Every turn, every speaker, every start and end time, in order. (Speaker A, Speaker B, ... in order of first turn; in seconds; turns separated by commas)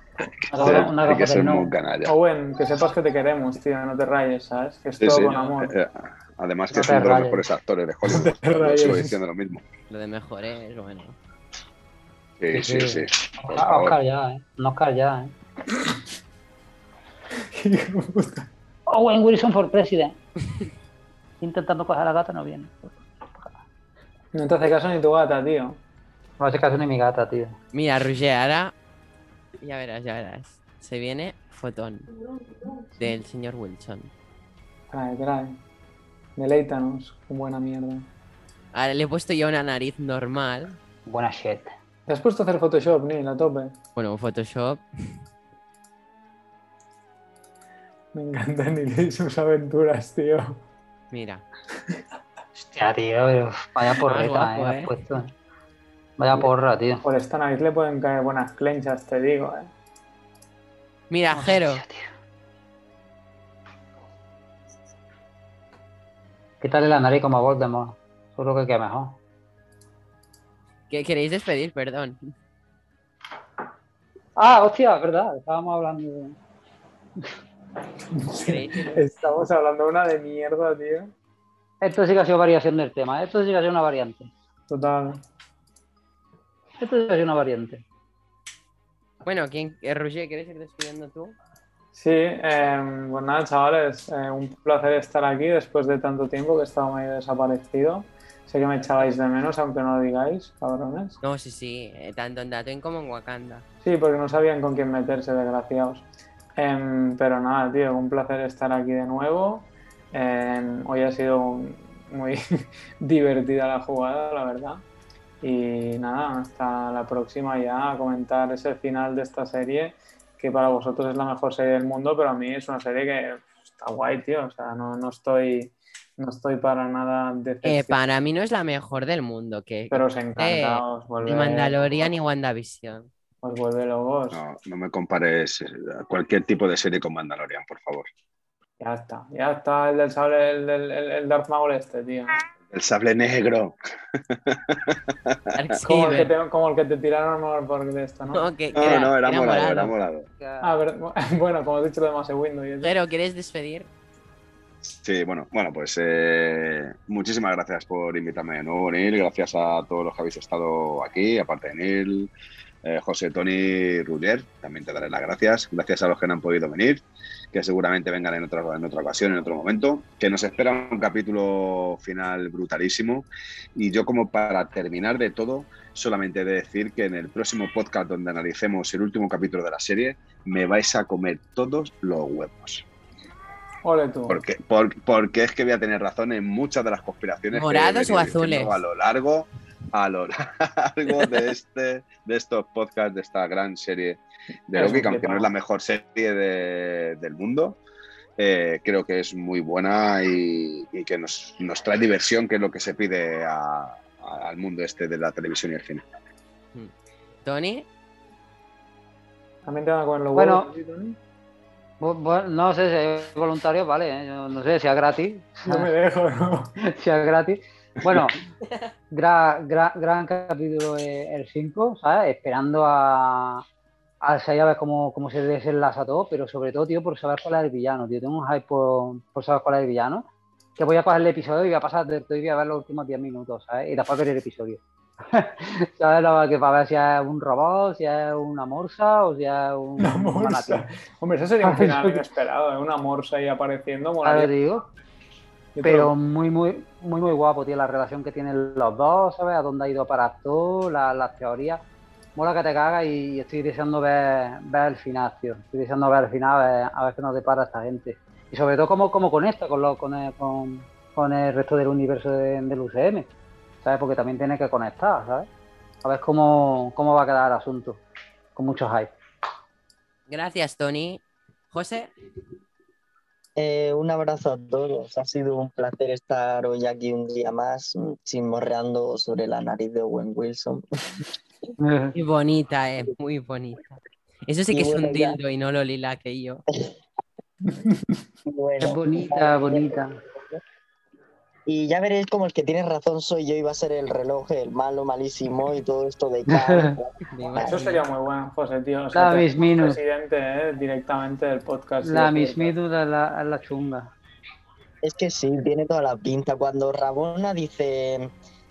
Speaker A: 0.2-2.1, Speaker B: 0.5-1.7, Speaker C: 2.1-5.7, Speaker A: 5.0-9.7, Speaker B: 6.7-7.5, Speaker C: 8.1-9.2, Speaker D: 9.9-11.2, Speaker A: 12.4-14.0, Speaker B: 12.5-15.3, Speaker C: 17.5-18.5, Speaker B: 18.9-20.2, Speaker B: 21.4-22.8, Speaker C: 24.3-25.8, Speaker B: 26.4-27.6, Speaker D: 27.7-28.7, Speaker D: 29.6-32.1, Speaker D: 32.9-34.1, Speaker C: 34.9-35.6, Speaker C: 36.4-38.1, Speaker D: 38.7-40.8, Speaker B: 41.1-41.7, Speaker C: 42.1-43.8, Speaker D: 44.0-44.8, Speaker C: 48.1-50.6, Speaker D: 51.1-51.5, Speaker B: 52.6-55.3, Speaker D: 54.0-54.9, Speaker B: 56.2-57.0, Speaker C: 57.0-59.7, Speaker D: 61.1-61.8, Speaker B: 61.3-62.1, Speaker B: 66.6-69.2, Speaker D: 70.9-72.2, Speaker B: 74.4-76.4, Speaker C: 78.1-81.1, Speaker D: 78.3-79.0, Speaker B: 81.8-84.3, Speaker C: 84.7-85.2, Speaker B: 86.8-87.8, Speaker D: 89.2-91.4, Speaker C: 91.9-101.2, Speaker D: 101.2-103.7, Speaker C: 103.8-112.4, Speaker C: 113.0-114.8, Speaker C: 115.4-128.0, Speaker D: 127.6-133.1, Speaker C: 129.9-132.0, Speaker C: 133.4-134.4, Speaker A: 134.3-138.1, Speaker C: 138.8-142.4, Speaker A: 142.6-145.5, Speaker D: 145.5-146.3, Speaker C: 145.8-148.5, Speaker D: 148.3-149.9, Speaker A: 148.8-150.3, Speaker B: 150.4-150.7, Speaker C: 150.6-152.9, Speaker D: 152.8-153.9, Speaker A: 155.0-162.3, Speaker A: 162.8-182.9, Speaker C: 183.8-184.4, Speaker A: 184.3-197.8, Speaker D: 187.5-188.8, Speaker C: 194.7-195.5, Speaker A: 198.4-206.1, Speaker D: 207.4-207.9, Speaker C: 209.7-211.2, Speaker B: 210.3-210.7, Speaker B: 212.0-215.9, Speaker C: 215.7-216.8, Speaker B: 216.8-218.4, Speaker B: 219.1-223.6, Speaker B: 224.2-240.9, Speaker C: 240.0-244.5, Speaker B: 241.6-242.2, Speaker B: 244.2-244.9, Speaker C: 245.8-246.1, Speaker B: 245.8-251.8, Speaker B: 252.4-263.3, Speaker B: 263.8-265.5, Speaker B: 266.0-268.0, Speaker B: 268.6-269.1, Speaker D: 270.3-272.1, Speaker E: 273.6-280.8, Speaker B: 281.8-282.1, Speaker D: 282.1-286.6, Speaker E: 284.7-285.4, Speaker C: 287.6-288.1, Speaker E: 288.4-290.6, Speaker B: 288.8-290.2, Speaker E: 291.7-297.9, Speaker B: 296.5-297.0, Speaker D: 297.3-298.0, Speaker C: 297.6-302.7, Speaker B: 299.1-300.0, Speaker B: 302.0-304.1, Speaker E: 305.0-308.3